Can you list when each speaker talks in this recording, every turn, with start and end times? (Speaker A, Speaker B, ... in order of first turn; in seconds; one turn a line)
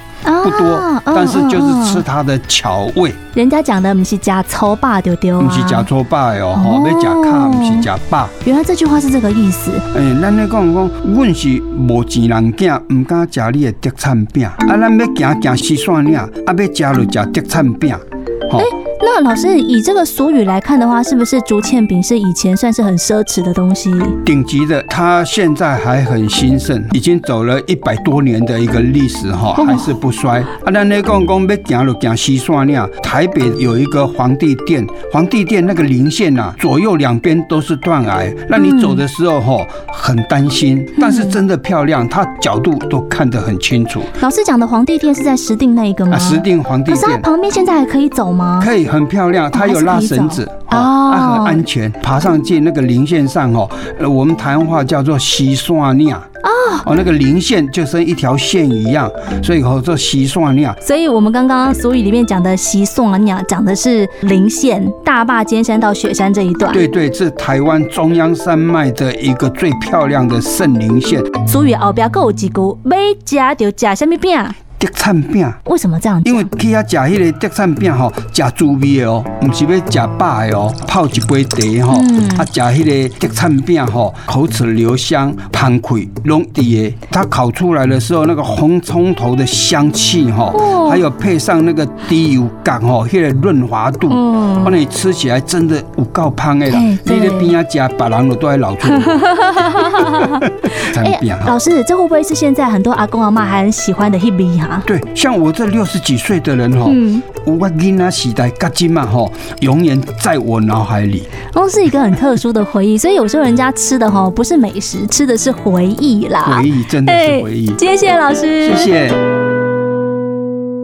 Speaker A: 0.2-2.0
Speaker B: 0.4-3.2
Speaker A: 3.3-5.9
Speaker B: 5.4-8.3
Speaker A: 6.5-7.9
Speaker A: 8.4-9.8
Speaker B: 9.9-18.7
Speaker A: 18.6-24.2
Speaker B: 24.2-44.1
Speaker A: 29.6-29.9
Speaker A: 38.5-39.0
Speaker A: 41.0-41.4
Speaker A: 44.2-48.7
Speaker B: 46.1-47.3
Speaker B: 48.6-56.2
Speaker A: 49.5-51.6
Speaker A: 56.4-56.9
Speaker B: 56.8-60.8
Speaker A: 60.8-66.8
Speaker B: 66.7-71.3
Speaker A: 71.4-74.6
Speaker B: 74.8-75.6
Speaker A: 75.7-76.5
Speaker B: 76.2-99.2
Speaker A: 81.9-82.5
Speaker A: 90.5-91.0
Speaker A: 94.1-94.8
Speaker A: 96.7-97.5
Speaker A: 99.0-100.4
Speaker B: 100.2-101.5
Speaker A: 101.0-104.9
Speaker B: 104.8-111.3
Speaker A: 106.8-107.2
Speaker A: 111.5-118.9
Speaker B: 116.4-117.8
Speaker B: 118.6-119.2